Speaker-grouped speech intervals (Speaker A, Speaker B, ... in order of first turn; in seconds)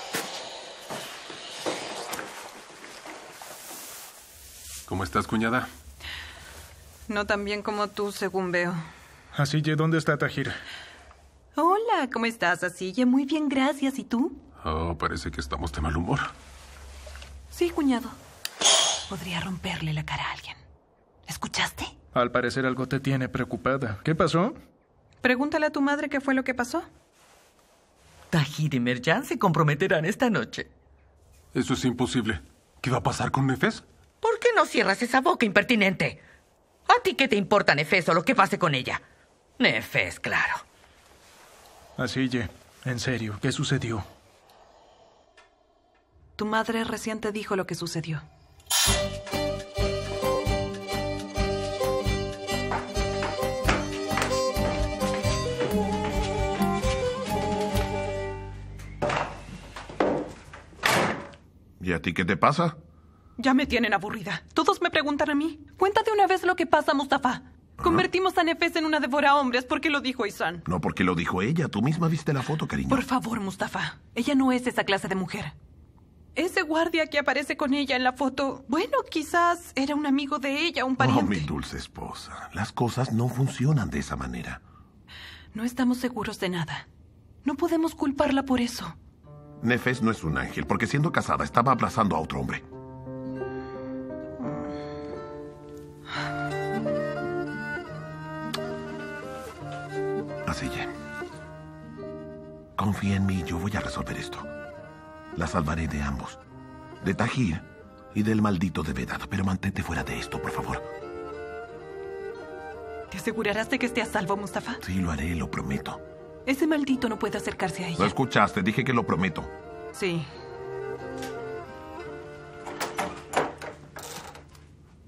Speaker A: 4.9-5.7, 14.6-16.3, 31.5-33.8
Speaker B: 7.1-8.8, 11.6-14.4, 17.5-18.2, 19.1-20.6, 21.3-21.9, 25.2-26.9, 46.4-48.2, 63.4-70.6, 72.9-75.5, 76.4-81.5, 85.5-86.9, 87.4-89.0, 113.1-114.8, 116.5-118.1, 119.9-120.3
Speaker C: 9.3-10.5, 22.1-24.6, 42.0-44.1
Speaker D: 28.3-30.7, 34.2-36.2, 36.9-39.0, 39.6-40.6
Speaker E: 61.8-62.8, 67.8-68.1, 70.7-73.1, 81.0-84.6, 89.6-92.6, 100.5-100.9, 102.8-104.5, 105.3-106.4, 107.0-110.8, 114.8-116.0, 118.0-119.5